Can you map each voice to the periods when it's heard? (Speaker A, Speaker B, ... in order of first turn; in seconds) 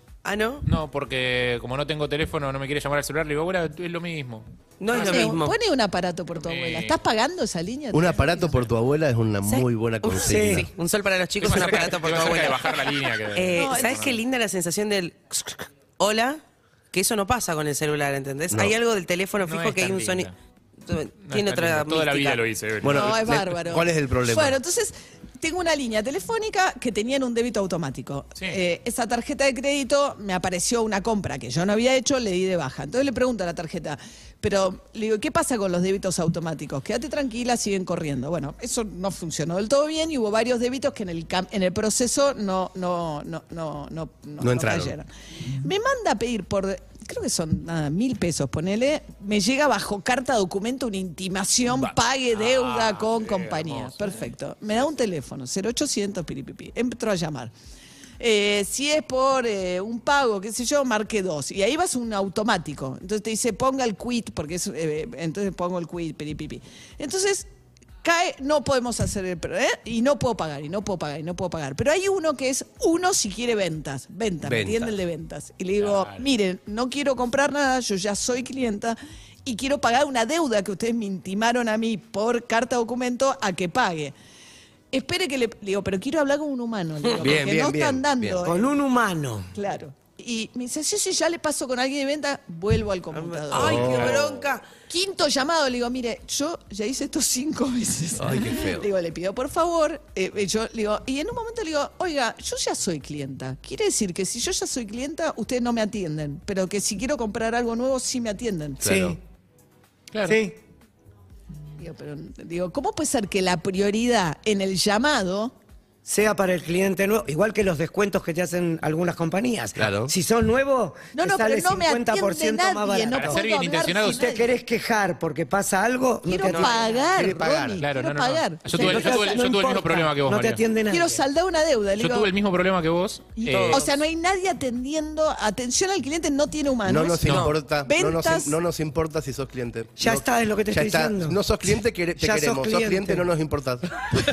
Speaker A: 0.2-0.7, 4.8-5.6, 9.5-20.3, 20.8-22.4, 93.1-94.7, 126.4-127.1, 133.5-133.9, 137.3-137.5
Speaker B: 0.6-5.3, 6.4-7.0, 11.4-14.2, 19.4-20.3, 21.2-23.3, 52.3-54.2, 75.8-76.2, 110.1-110.4, 123.1-124.2, 127.8-130.6, 132.0-133.9, 137.2-137.5
Speaker C: 4.9-8.6, 13.6-14.0, 22.9-57.5, 58.2-67.5, 68.0-84.1, 84.9-88.7, 89.5-94.2, 94.9-108.8, 111.8-115.5, 121.1-124.5, 126.2-129.3, 130.9-132.3, 133.4-138.6
Speaker D: 7.9-10.7, 18.5-18.8, 22.8-24.6, 44.4-44.9, 74.4-74.9, 87.2-88.4, 93.5-94.3, 98.2-98.9, 108.8-109.2, 119.8-120.1, 127.1-127.8, 136.8-144.1
Speaker E: 10.2-10.7, 88.4-89.5, 108.8-109.2, 110.2-110.6, 116.0-123.4, 124.0-126.8, 128.7-131.2, 140.0-141.4, 142.2-143.3